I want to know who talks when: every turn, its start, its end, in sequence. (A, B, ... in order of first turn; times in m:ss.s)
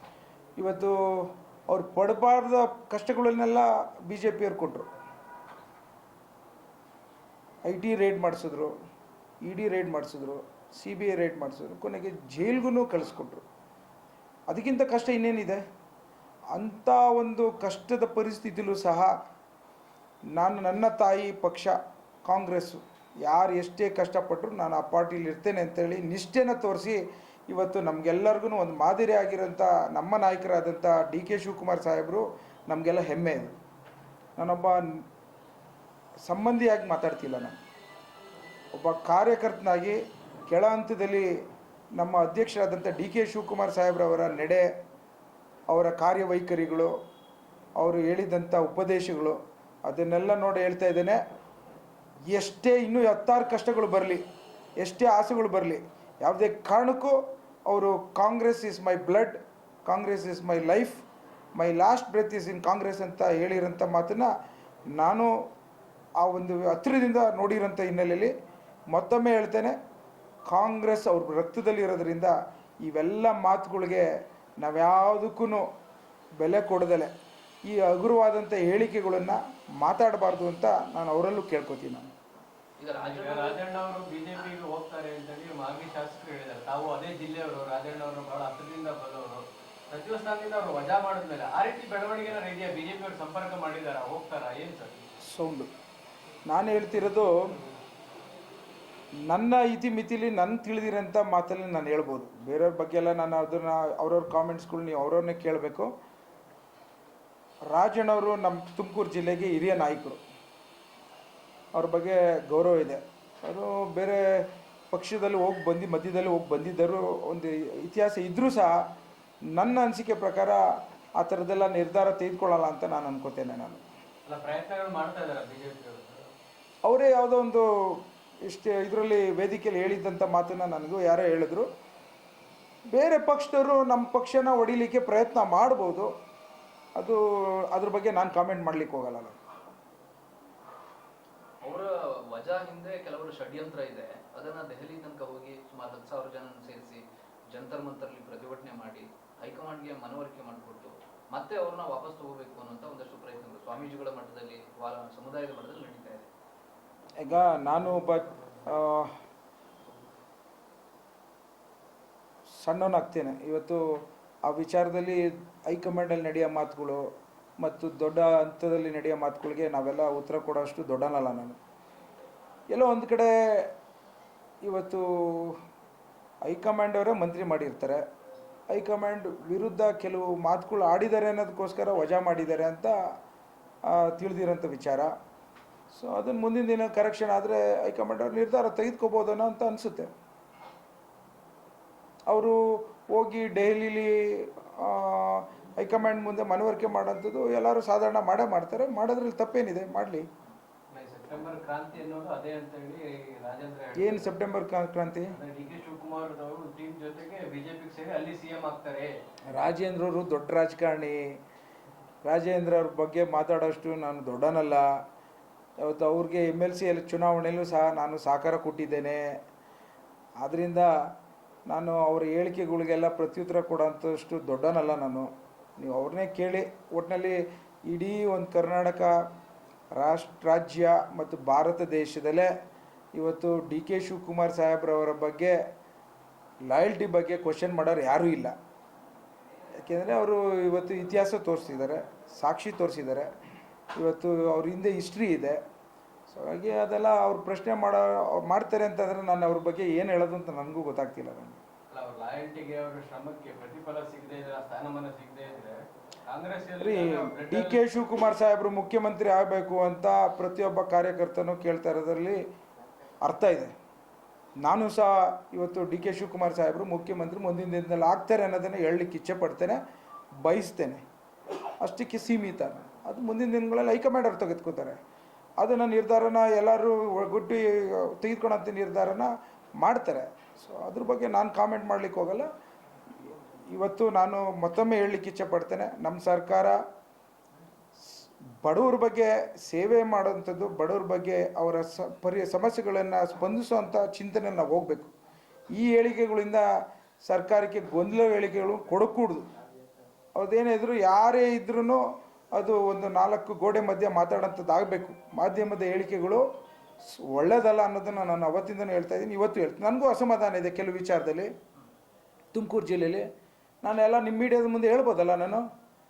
0:00.6-0:04.9 A
0:07.6-0:08.7 A
0:09.4-0:13.4 A
0:14.5-0:15.6 A
0:16.5-0:19.1 A
0:20.4-0:21.7 A
0:22.2-0:33.5 A
0:34.4-0:35.0 A
0:36.2-0:37.6 A
0:38.7-0:41.3 A
0:42.0-0:44.6 A
0:45.7-0:46.9 A
0:47.8-0:51.2 A
0:52.3-0:54.2 A
0:54.8-1:01.0 A
1:01.5-1:04.3 A
1:04.9-1:05.3 A
1:06.2-1:08.3 A
1:08.9-1:09.8 A
1:10.5-1:14.0 A
1:14.6-1:15.7 A
1:16.4-1:17.1 A
1:17.6-1:22.1 A
1:22.8-1:23.6 B
1:22.9-1:35.1 C
1:35.2-1:35.7 A
1:36.5-1:37.4 A
1:39.3-1:45.9 A
1:47.7-1:50.2 A
1:51.7-1:58.8 A
1:59.5-2:00.6 A
2:01.2-2:03.8 A
2:04.2-2:06.3 C
2:06.8-2:11.7 A
2:12.9-2:16.1 A
2:17.0-2:19.4 A
2:21.6-2:36.3 B
2:37.2-2:39.1 A
2:42.6-2:47.0 A
2:47.6-2:51.6 A
2:52.7-2:53.7 A
2:54.6-2:55.6 A
2:56.4-2:58.0 A
2:58.7-3:02.9 A
3:03.9-3:05.1 A
3:05.9-3:10.1 A
3:12.3-3:20.3 A
3:20.9-3:24.3 C
3:24.0-3:25.3 A
3:25.3-3:29.1 C
3:29.5-3:31.2 A
3:32.2-3:34.8 A
3:35.8-3:39.2 A
3:40.4-3:40.9 A
3:41.7-3:49.1 A
3:50.0-3:52.5 A
3:53.1-3:55.6 A
3:56.6-3:58.5 A
3:59.8-4:03.3 A
4:03.9-4:05.6 A
4:06.3-4:11.6 A
4:11.9-4:17.9 C
4:16.8-4:22.4 A
4:23.2-4:23.7 A
4:24.6-4:29.8 A
4:30.4-4:31.0 A
4:31.8-4:35.0 A
4:35.6-4:42.5 A
4:43.3-4:46.8 A
4:48.1-4:55.1 A
4:55.7-4:56.6 A
4:57.2-4:59.5 A
5:00.4-5:02.0 A
5:02.5-5:06.5 A
5:07.1-5:11.5 A
5:12.5-5:13.3 A
5:13.8-5:15.6 A